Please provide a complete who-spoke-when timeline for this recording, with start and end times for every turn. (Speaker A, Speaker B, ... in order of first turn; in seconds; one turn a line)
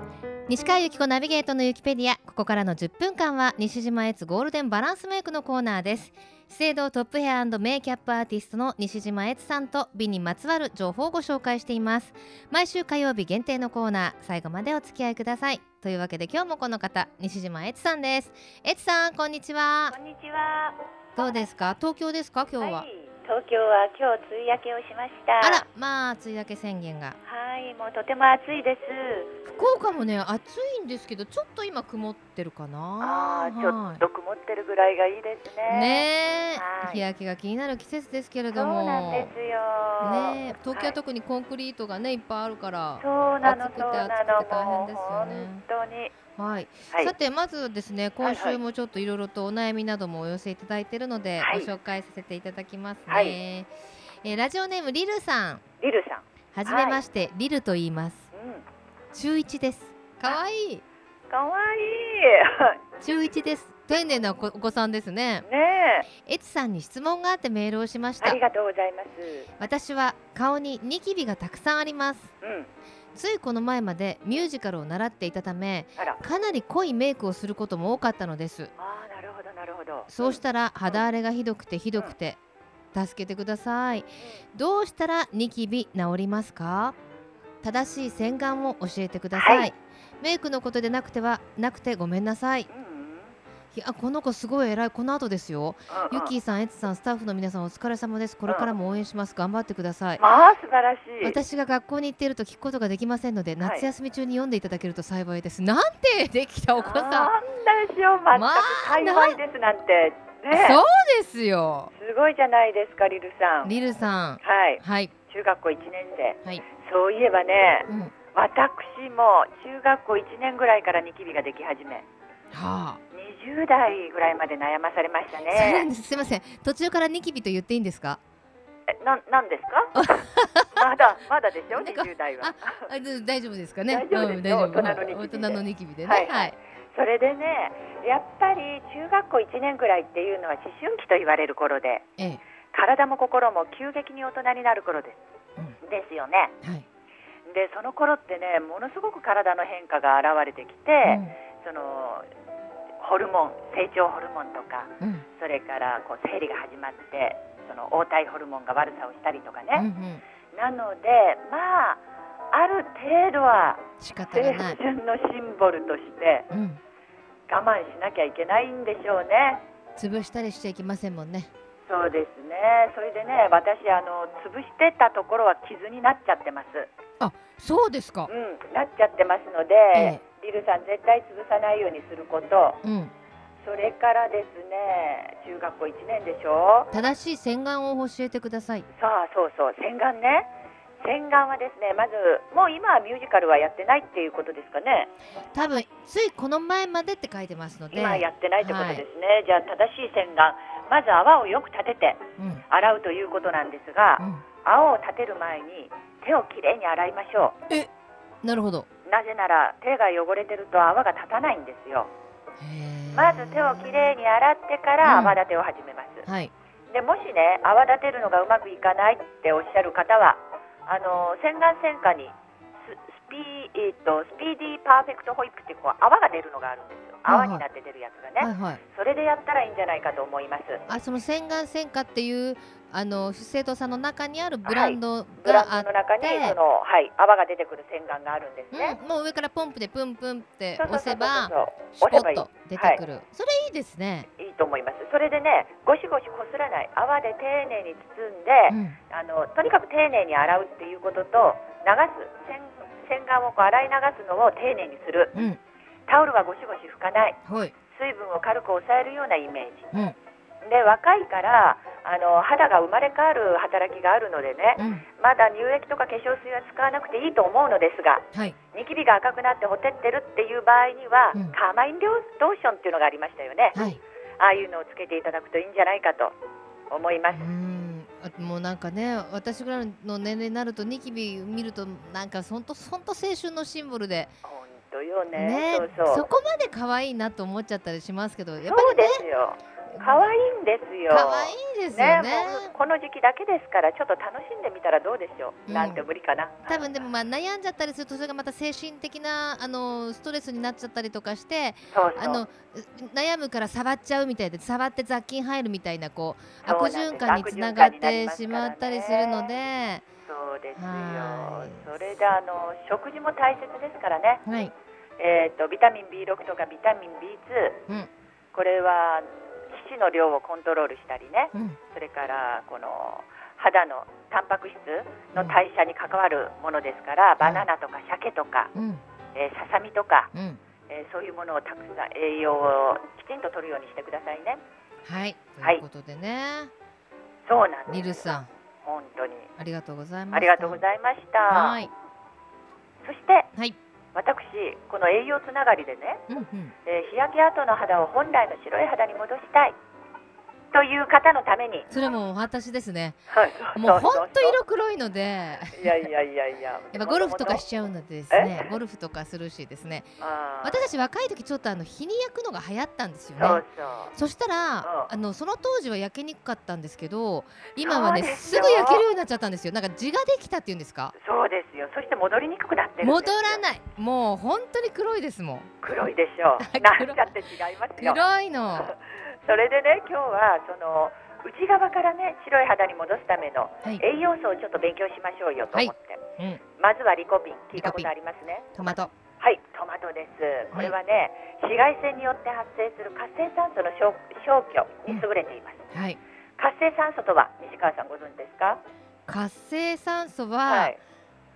Speaker A: 0.5-19.9
Speaker B: 19.9-20.8
Speaker A: 21.2-22.9
Speaker B: 22.6-25.6
Speaker A: 25.4-27.2
Speaker B: 27.2-29.3
Speaker A: 29.4-34.0
Speaker B: 33.0-37.0
Speaker A: 35.7-39.3
Speaker B: 38.5-41.0
Speaker A: 40.0-45.6
Speaker B: 43.0-46.1
Speaker A: 46.4-53.7
Speaker B: 48.2-48.6
Speaker B: 51.4-51.7
Speaker B: 53.1-53.4
Speaker A: 54.2-55.6
Speaker B: 55.8-57.0
Speaker A: 56.5-58.3
Speaker B: 58.3-58.6
Speaker A: 59.1-60.8
Speaker B: 61.3-62.8
Speaker A: 63.0-65.4
Speaker B: 65.4-66.1
Speaker A: 66.2-68.4
Speaker B: 68.2-69.5
Speaker A: 69.6-72.3
Speaker B: 72.4-72.7
Speaker A: 73.1-78.7
Speaker B: 78.8-81.0
Speaker A: 80.1-82.4
Speaker A: 82.9-87.0
Speaker A: 87.6-92.7
Speaker B: 89.3-89.7
Speaker B: 92.7-93.3
Speaker A: 93.7-100.2
Speaker B: 95.9-96.3
Speaker B: 100.2-101.4
Speaker A: 101.2-107.3
Speaker B: 103.6-103.9
Speaker B: 106.8-110.8
Speaker A: 108.3-109.4
Speaker A: 110.5-111.9
Speaker B: 111.9-113.7
Speaker A: 113.6-115.1
Speaker B: 114.4-122.1
Speaker A: 117.9-118.1
Speaker A: 122.5-123.0
Speaker B: 123.1-125.9
Speaker A: 125.5-128.2
Speaker B: 128.9-130.2
Speaker A: 129.9-130.8
Speaker B: 130.8-132.9
Speaker A: 131.7-136.6
Speaker B: 133.9-142.1
Speaker B: 142.7-145.2
Speaker B: 145.8-146.5
Speaker B: 147.4-152.3
Speaker A: 151.0-151.3
Speaker B: 153.0-159.9
Speaker A: 159.7-160.2
Speaker B: 160.5-166.5
Speaker A: 164.0-164.8
Speaker A: 166.5-166.8
Speaker B: 167.5-169.6
Speaker A: 169.9-171.5
Speaker B: 171.9-176.9
Speaker A: 177.2-178.3
Speaker B: 178.3-182.8
Speaker A: 179.9-180.2
Speaker A: 182.8-183.1
Speaker B: 183.6-186.9
Speaker A: 186.9-188.9
Speaker B: 188.9-195.1
Speaker A: 195.5-199.0
Speaker B: 197.9-207.6
Speaker A: 202.4-202.6
Speaker A: 204.2-204.4
Speaker A: 208.4-208.9
Speaker B: 209.1-212.1
Speaker A: 212.6-214.1
Speaker B: 213.1-216.2
Speaker A: 215.0-215.4
Speaker A: 216.2-216.5
Speaker B: 216.9-230.8
Speaker A: 227.2-227.6
Speaker A: 228.4-228.8
Speaker A: 230.9-236.6
Speaker B: 234.6-239.0
Speaker A: 238.7-244.3
Speaker B: 240.8-243.0
Speaker B: 244.3-255.4
Speaker A: 248.7-249.0
Speaker B: 256.1-259.9
Speaker A: 257.4-257.7
Speaker B: 260.6-273.8
Speaker A: 264.8-265.0
Speaker A: 273.7-274.0
Speaker B: 274.4-276.4
Speaker B: 276.9-277.5
Speaker A: 277.3-284.3
Speaker B: 284.4-286.3
Speaker A: 285.3-289.2
Speaker B: 288.6-296.9
Speaker A: 289.9-290.2
Speaker A: 291.1-292.7
Speaker A: 295.7-296.1
Speaker A: 296.6-310.0
Speaker B: 301.9-302.4
Speaker B: 306.6-309.5
Speaker B: 310.2-314.4
Speaker A: 310.8-311.8
Speaker A: 314.4-314.7
Speaker B: 315.2-317.8
Speaker B: 318.5-328.7
Speaker A: 327.4-327.7
Speaker A: 328.7-329.0
Speaker B: 329.3-330.3
Speaker A: 330.3-330.6
Speaker B: 330.9-334.6
Speaker A: 335.0-336.7
Speaker B: 337.4-338.2
Speaker A: 337.9-338.5
Speaker B: 338.8-339.5
Speaker A: 339.6-340.8
Speaker B: 340.3-341.8
Speaker A: 341.5-341.9
Speaker B: 343.0-343.5
Speaker B: 344.1-346.2
Speaker A: 346.3-346.7
Speaker B: 346.8-349.8
Speaker B: 350.7-351.9
Speaker A: 351.9-353.2
Speaker B: 353.3-354.6
Speaker A: 353.7-356.1
Speaker B: 355.7-357.6
Speaker A: 356.9-363.6
Speaker B: 358.3-358.7
Speaker B: 360.2-360.9
Speaker B: 363.4-364.1
Speaker A: 364.1-371.1
Speaker B: 364.8-365.1
Speaker B: 367.8-369.0
Speaker B: 371.1-373.6
Speaker A: 373.0-375.7
Speaker B: 375.8-378.2
Speaker A: 376.6-377.3
Speaker A: 378.0-378.9
Speaker B: 378.7-386.2
Speaker A: 385.7-386.6
Speaker B: 386.8-388.7
Speaker A: 387.7-388.1
Speaker A: 388.7-389.1
Speaker B: 389.4-395.9
Speaker A: 395.9-396.2
Speaker B: 396.6-398.8
Speaker A: 399.3-400.9
Speaker B: 400.6-401.0